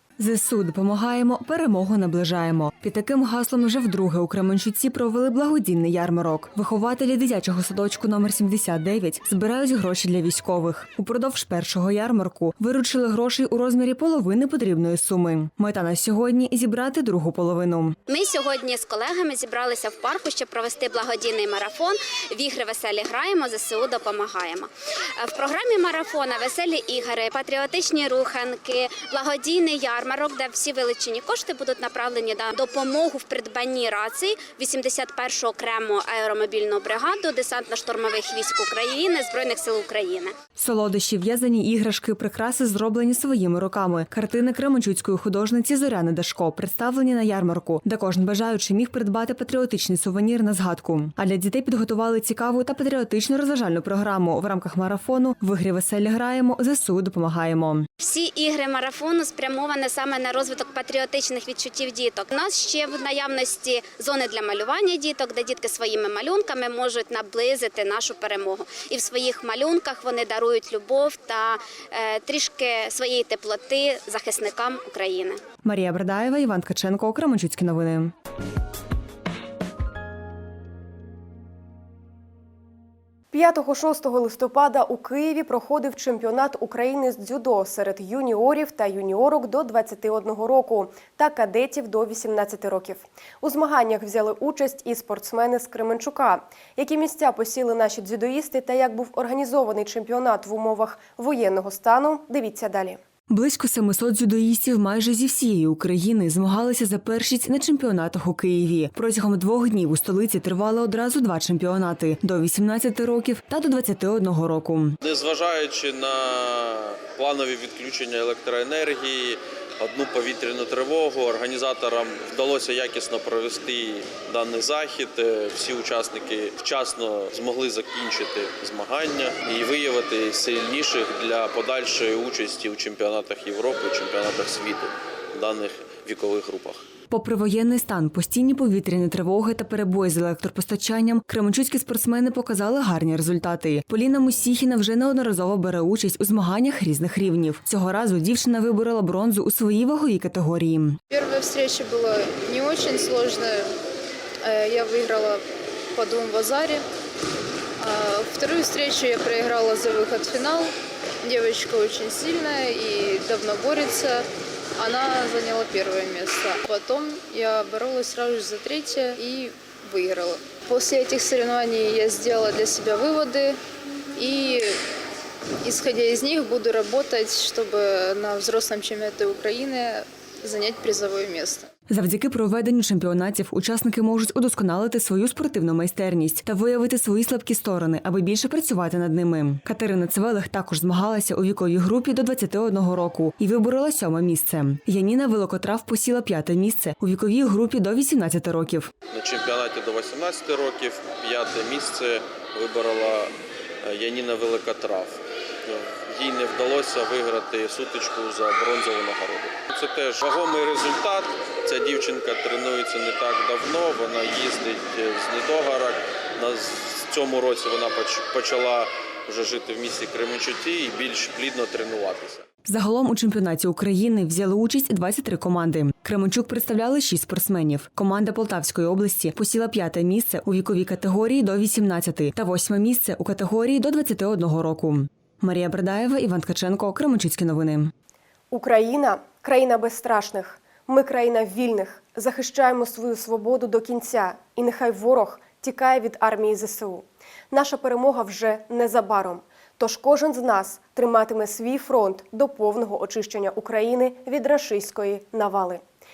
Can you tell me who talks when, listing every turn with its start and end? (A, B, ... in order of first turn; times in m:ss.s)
0:00.2-0:18.0 A
0:18.1-0:40.3 B
0:40.6-0:57.9 A
0:58.0-1:15.4 B
1:15.6-1:18.1 A
1:23.3-1:43.0 C
1:43.3-1:55.0 A
1:55.0-2:16.8 D
2:17.1-2:31.0 A
2:31.1-2:33.7 E
2:34.4-2:35.4 E
2:36.0-2:36.8 E
2:37.8-2:40.7 E
2:41.2-2:44.2 E
2:44.8-2:53.6 E
2:54.2-2:54.8 E
2:55.6-3:01.7 E
3:01.9-3:18.9 A
3:19.1-3:23.3 D
3:23.8-3:42.4 D
3:42.6-3:57.9 A
3:58.5-4:15.8 C